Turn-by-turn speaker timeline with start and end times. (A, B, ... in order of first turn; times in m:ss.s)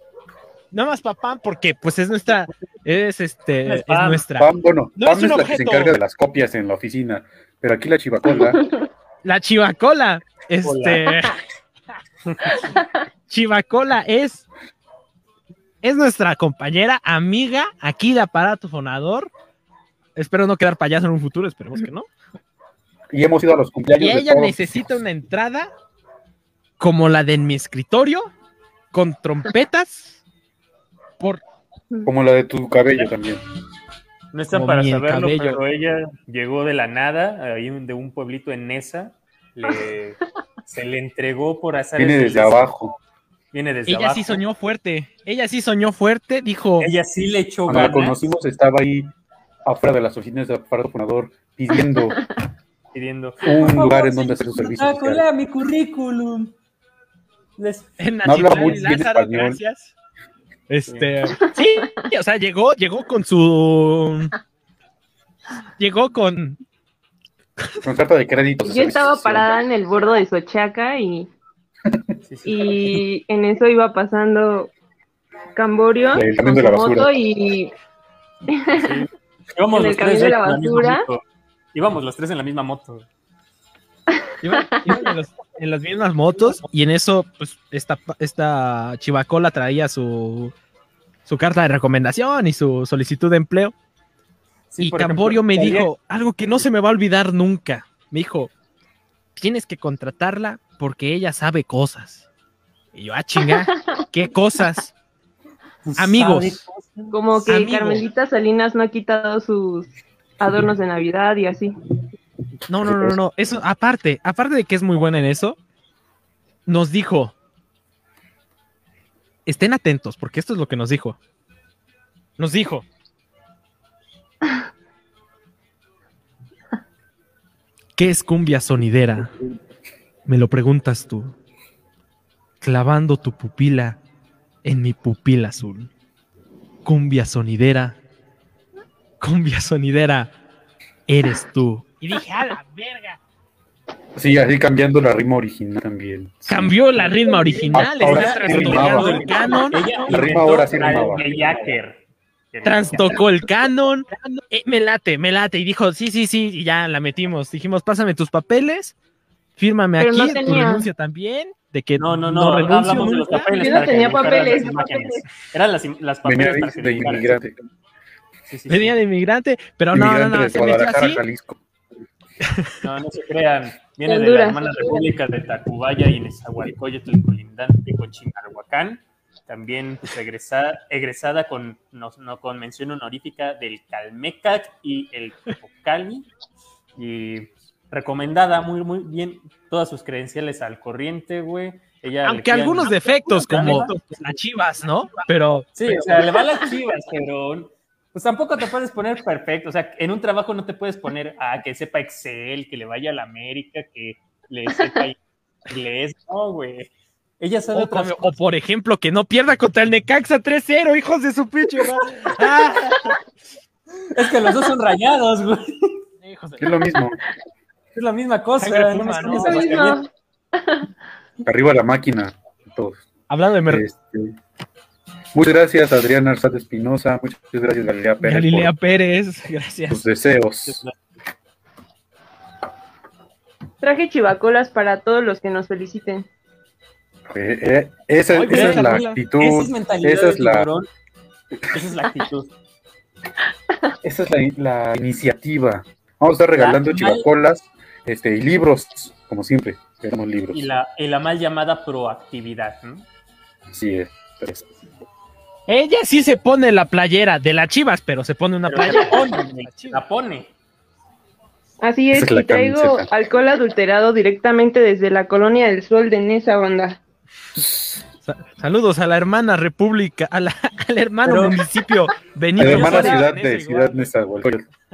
0:00.7-0:06.0 A
0:03.6-0:04.2 B
0:04.4-0:08.7 C
0:09.2-0:11.4 A
0:10.6-0:11.3 B
0:12.3-0:12.6 B
0:13.3-0:14.4 A
0:15.8-0:19.3 A
0:20.2-0:22.1 A
0:23.1-0:24.9 C
0:24.0-0:25.7 A
0:26.8-0:28.3 A
0:28.9-0:30.2 A
0:32.0-0:33.4 C
0:34.3-0:42.7 B
0:34.5-0:35.6 A
0:42.0-0:42.9 C
0:43.5-0:44.4 B
0:43.9-0:46.9 A
0:46.8-0:48.3 B
0:47.7-0:49.1 C
0:49.6-0:52.2 C
0:52.9-0:56.6 B
0:53.4-0:55.2 C
0:57.6-0:57.9 B
0:58.0-0:59.9 A
0:58.2-0:59.6 C
1:00.7-1:04.3 A
1:00.9-1:01.1 B
1:05.8-1:06.6 A
1:07.8-1:09.5 C
1:08.6-1:11.3 D
1:12.2-1:12.7 B
1:12.4-1:14.7 D
1:15.5-1:17.7 D
1:16.1-1:17.1 C
1:18.5-1:19.0 D
1:18.7-1:21.2 B
1:19.7-1:21.0 D
1:21.7-1:23.0 B
1:24.4-1:30.5 A
1:31.2-1:33.7 A
1:34.7-1:35.9 B
1:34.8-1:38.5 A
1:39.4-1:42.2 A
1:42.9-1:44.9 A
1:45.8-1:47.1 B
1:46.0-1:46.6 A
1:47.1-1:51.8 D
1:47.5-1:48.0 A
1:52.7-1:55.6 A
1:52.8-1:53.2 C
1:56.6-1:57.3 A
1:59.4-2:01.2 A
2:02.4-2:02.8 A
2:08.0-2:09.3 A
2:10.2-2:11.3 A
2:12.6-2:14.0 A
2:14.6-2:15.9 A
2:16.8-2:18.0 A
2:19.2-2:20.3 A
2:21.1-2:23.2 A
2:24.1-2:29.5 C
2:26.5-2:30.2 A
2:27.8-2:32.0 B
2:30.0-2:31.8 C
2:32.5-2:33.2 B
2:32.6-2:38.9 A
2:39.6-2:43.6 A
2:40.0-2:40.8 D
2:42.0-2:47.4 B
2:43.6-2:45.2 D
2:46.2-2:47.6 C
2:48.5-2:49.0 B
2:48.7-2:51.2 A
2:49.9-2:51.6 C
2:52.4-2:52.7 A
2:52.8-3:06.3 B
2:54.1-2:55.0 D
3:07.0-3:14.2 B
3:12.2-3:16.1 A
3:15.8-3:26.9 B
3:27.4-3:28.3 B
3:27.7-3:33.1 A
3:34.1-3:36.0 B
3:36.2-3:36.7 A
3:36.6-3:37.2 C
3:37.9-3:40.0 B
3:38.6-3:39.7 A
3:39.3-3:40.9 D
3:41.4-3:43.1 C
3:43.3-3:43.8 A
3:43.6-3:44.4 C
3:45.3-3:48.7 C
3:48.2-3:50.0 A
3:49.9-3:50.8 C
3:50.6-3:50.9 B
3:53.8-3:56.3 D
3:57.3-4:00.7 C
3:58.3-3:59.2 A
3:58.5-4:00.9 B
4:01.7-4:02.5 B
4:04.0-4:10.7 C
4:06.6-4:07.3 B
4:10.5-4:13.0 B
4:13.7-4:14.7 C
4:15.7-4:20.0 A
4:18.7-4:20.5 B
4:21.8-4:27.0 D
4:22.1-4:23.1 C
4:28.2-4:34.1 A
4:31.2-4:31.6 B
4:32.6-4:34.7 C
4:32.6-4:33.2 B